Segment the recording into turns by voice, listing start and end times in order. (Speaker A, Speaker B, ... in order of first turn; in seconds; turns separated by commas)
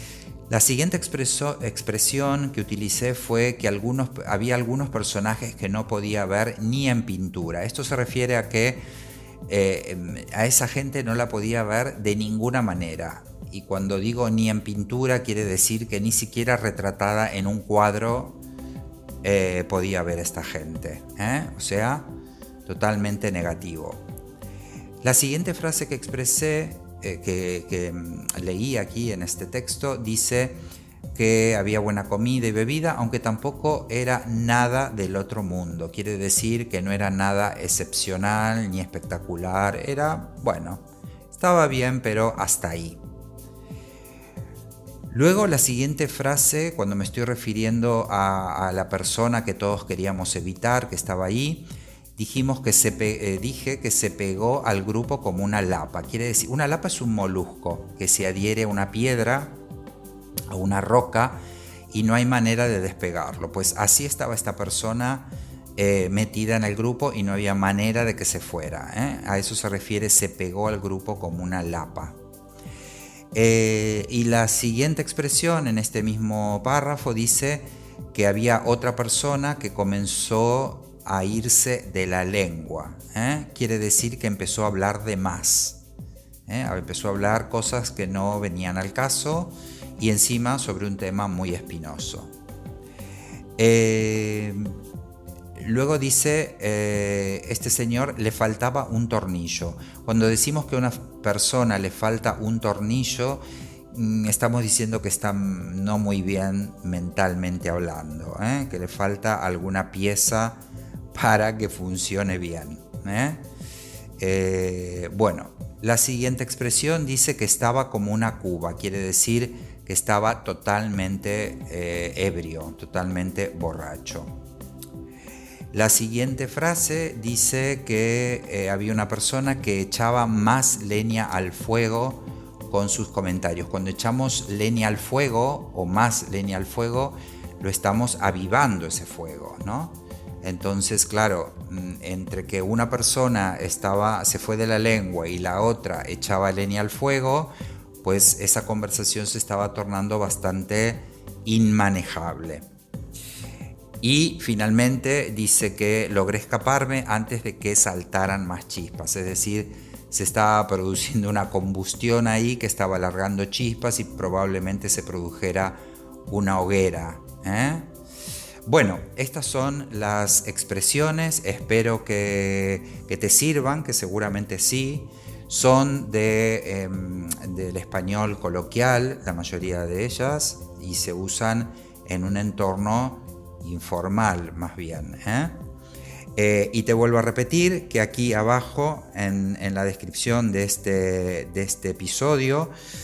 Speaker A: 0.5-8.8, Speaker A: 9.5-18.4, Speaker A: 19.2-22.1, Speaker A: 22.7-24.0, Speaker A: 25.0-30.6, Speaker A: 31.1-43.0, Speaker A: 45.1-59.5, Speaker A: 60.5-61.4, Speaker A: 61.9-72.2, Speaker A: 73.3-85.8, Speaker A: 86.5-92.3, Speaker A: 93.6-94.7, Speaker A: 95.6-110.6, Speaker A: 111.1-113.4, Speaker A: 114.2-124.3, Speaker A: 125.7-152.7, Speaker A: 154.0-167.9, Speaker A: 168.7-185.6, Speaker A: 186.4-192.7